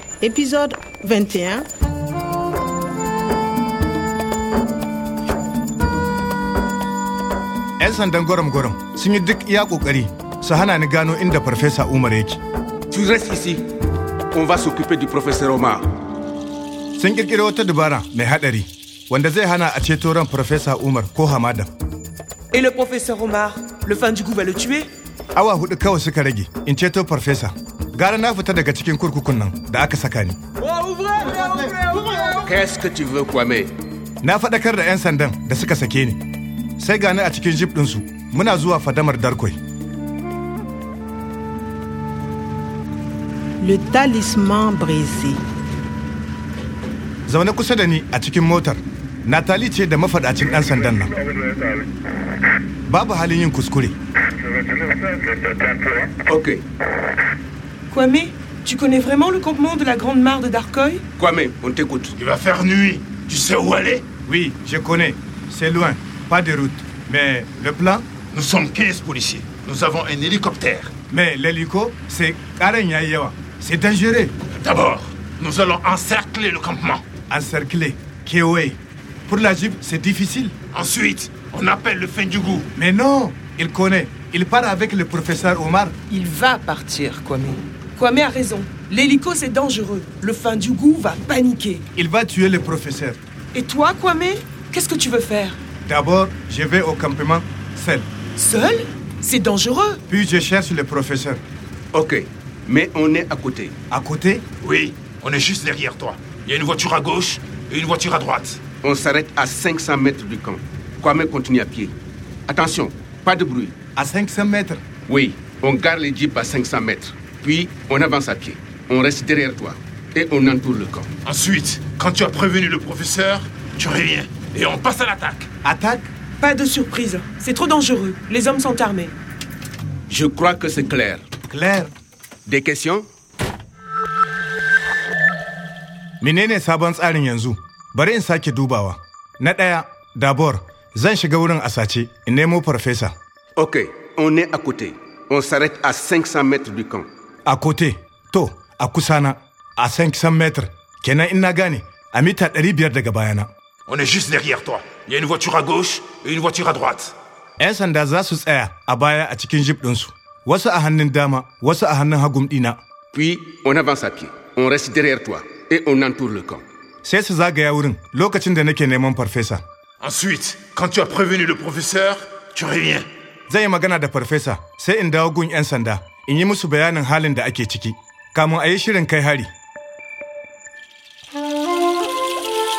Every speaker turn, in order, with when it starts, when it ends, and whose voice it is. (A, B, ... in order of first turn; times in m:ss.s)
0:00.2-0:01.7 A
0:07.8-0:12.4 B
0:12.9-0:13.6 C
0:14.3-0:15.9 C
0:17.0-0:21.7 B
0:22.5-0:24.9 D
0:25.3-0:30.4 B
0:32.1-0:33.7 C
0:34.2-0:36.2 B
0:36.8-0:39.6 B
0:43.6-0:45.4 A
0:47.3-0:51.2 B
0:52.9-0:54.0 B
0:56.3-0:56.6 C
0:57.9-1:01.0 D
1:01.2-1:02.2 C
1:02.2-1:04.0 E
1:04.2-1:08.0 B
1:08.3-1:10.9 E
1:11.1-1:14.3 B
1:14.6-1:17.0 E
1:17.3-1:20.6 B
1:20.7-1:22.7 E
1:22.8-1:25.9 B
1:26.1-1:31.8 D
1:32.0-1:33.2 B
1:33.5-1:35.6 D
1:35.8-1:38.1 B
1:38.4-1:40.0 D
1:40.1-1:41.4 B
1:41.9-1:43.7 C
1:43.9-1:44.4 B
1:44.6-1:48.6 E
1:48.8-1:51.9 C
1:52.5-1:53.7 C
1:54.0-1:54.8 B
1:55.1-2:01.1 C
2:01.2-2:05.5 E
2:05.6-2:06.1 B
2:06.4-2:09.1 D
2:10.1-2:11.2 C
2:11.5-2:11.9 B
2:12.4-2:13.0 C
2:16.2-2:23.1 B
2:23.6-2:27.1 C
2:27.4-2:33.5 B
2:33.9-2:37.1 E
2:37.6-2:42.8 B
2:43.1-2:46.6 C
2:47.0-2:49.6 B
2:50.0-2:53.1 E
2:53.5-2:59.5 B